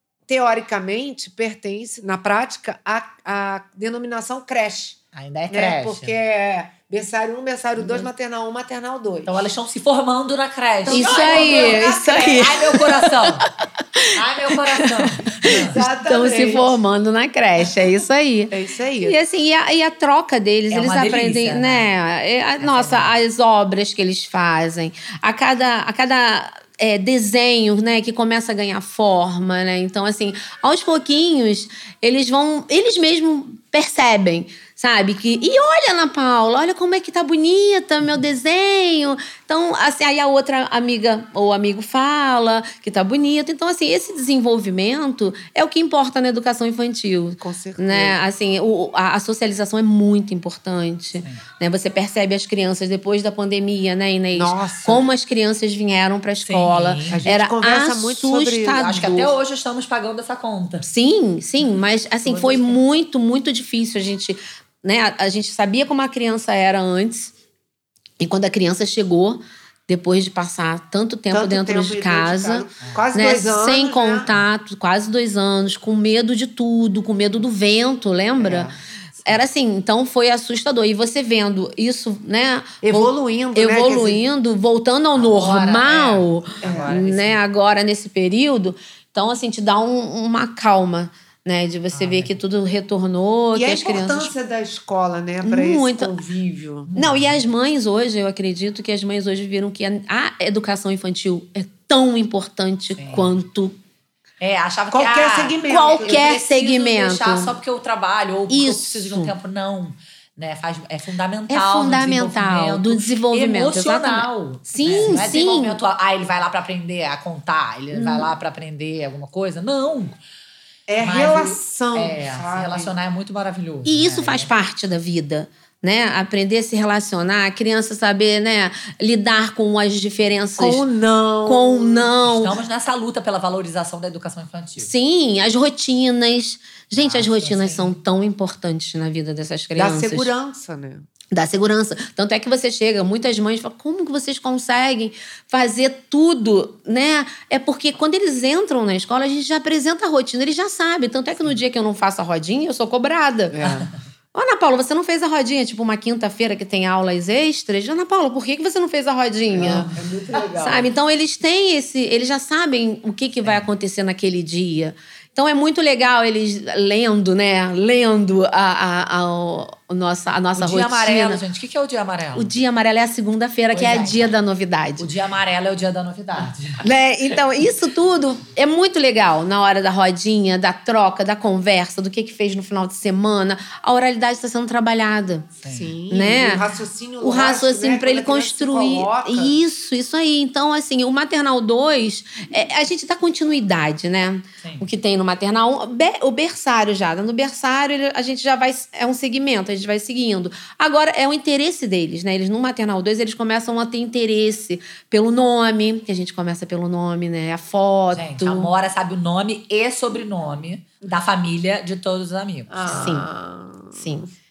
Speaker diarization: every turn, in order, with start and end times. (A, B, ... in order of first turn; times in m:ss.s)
0:00.3-0:05.0 A
0:05.1-0:06.1 B
0:05.5-0:09.3 A
0:09.2-0:13.5 B
0:10.8-0:12.9 A
0:10.9-0:59.3 C
0:14.2-0:15.8 B
0:15.6-0:16.8 A
0:18.5-0:19.2 A
0:20.7-0:21.9 B
0:22.6-0:23.1 B
0:47.4-0:48.2 A
0:54.3-0:55.1 A
0:56.4-0:57.2 B
0:57.1-0:58.9 A
0:58.8-1:00.9 B
1:00.8-1:07.3 C
1:08.2-1:18.7 C
1:11.3-1:14.3 A
1:18.4-1:18.8 A
1:19.2-1:34.3 C
1:22.8-1:24.3 A
1:25.2-1:27.4 B
1:26.6-1:27.0 A
1:31.9-1:32.4 B
1:33.5-1:36.9 A
1:35.4-1:36.1 C
1:36.9-1:37.4 B
1:37.0-1:43.8 C
1:43.0-1:43.3 B
1:44.4-2:00.2 B
1:44.9-1:46.4 A
1:45.7-1:47.6 C
1:48.5-1:49.3 C
1:51.5-1:55.8 C
1:57.9-1:58.3 C
2:00.9-2:02.9 A
2:01.0-2:04.5 B
2:03.9-2:10.8 C
2:10.6-2:12.1 A
2:11.4-2:12.6 C
2:12.2-2:14.9 B
2:14.8-2:20.3 C
2:17.0-2:17.9 B
2:19.8-2:21.1 A
2:21.3-2:33.6 C
2:33.5-2:33.9 A
2:34.3-2:39.9 C
2:39.5-2:40.9 A
2:40.6-2:51.4 C
2:50.6-2:52.5 B
2:52.4-2:55.1 C
2:53.7-2:54.3 B
2:55.0-2:56.8 B
2:56.8-3:05.5 C
3:05.6-3:05.9 B
3:05.7-3:09.6 A
3:06.1-3:06.7 C
3:07.2-3:28.7 C
3:14.6-3:14.9 B
3:28.1-3:33.1 B
3:32.7-3:34.2 A
3:32.9-3:33.3 C
3:33.9-3:34.3 C